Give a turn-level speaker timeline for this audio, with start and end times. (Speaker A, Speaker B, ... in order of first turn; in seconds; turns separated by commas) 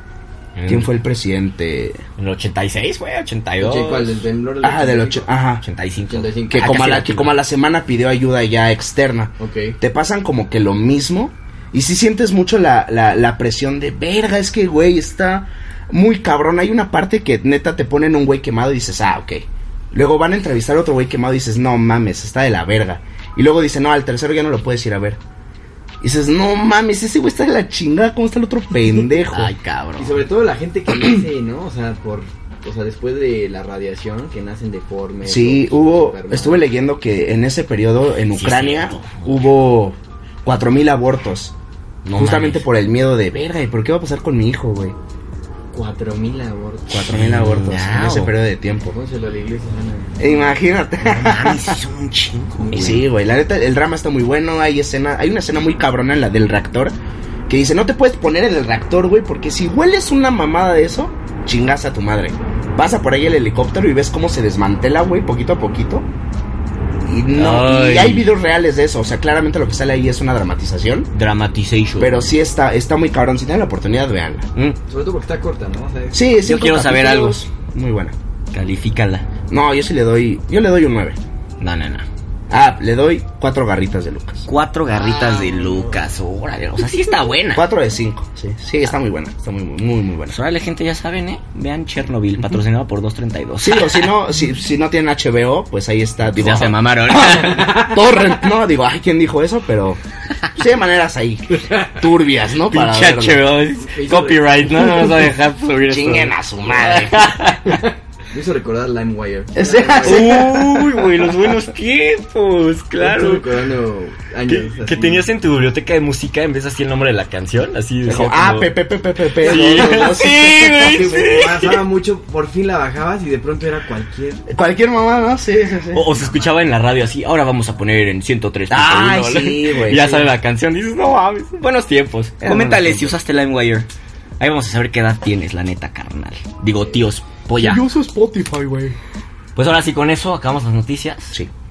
Speaker A: 0.6-0.9, Speaker B: 0.7-2.0, Speaker A: 2.2-4.2, Speaker C: 3.6-5.3, Speaker B: 4.6-5.6, Speaker A: 5.6-7.4, Speaker C: 6.1-6.8, Speaker B: 6.5-25.2, Speaker C: 9.4-9.8, Speaker B: 26.0-29.5, Speaker A: 29.3-30.2, Speaker C: 30.0-36.7, Speaker B: 35.2-41.5, Speaker A: 38.3-39.4, Speaker A: 42.0-42.6, Speaker B: 42.2-45.0, Speaker C: 45.7-47.0, Speaker B: 46.9-48.9, Speaker A: 47.0-48.4, Speaker C: 48.9-50.4, Speaker B: 50.2-51.8, Speaker A: 51.0-53.0, Speaker C: 52.6-53.0, Speaker B: 52.8-57.0, Speaker B: 57.5-66.1, Speaker B: 67.0-71.1, Speaker A: 67.3-68.3, Speaker A: 71.1-72.3, Speaker B: 72.0-74.5, Speaker C: 74.9-76.2, Speaker B: 76.1-78.2, Speaker A: 76.4-77.5, Speaker A: 78.5-79.3, Speaker B: 79.5-81.2, Speaker A: 81.6-82.1, Speaker B: 82.5-84.5, Speaker A: 84.5-87.7, Speaker C: 85.0-86.0, Speaker B: 87.5-90.3, Speaker A: 90.3-94.1, Speaker B: 93.6-100.0, Speaker A: 96.3-98.0, Speaker B: 100.5-103.5, Speaker A: 102.6-107.8, Speaker C: 103.9-104.7, Speaker B: 105.9-107.3, Speaker C: 108.3-110.5, Speaker B: 109.5-111.1, Speaker A: 110.0-113.5, Speaker C: 113.0-115.3, Speaker A: 114.5-118.7, Speaker B: 118.0-120.5, Speaker C: 119.4-124.5, Speaker A: 119.5-121.8, Speaker B: 124.5-126.1, Speaker A: 125.9-133.9, Speaker B: 128.7-130.3, Speaker B: 132.4-133.2, Speaker A: 134.4-137.9, Speaker B: 137.6-139.0, Speaker A: 139.6-141.4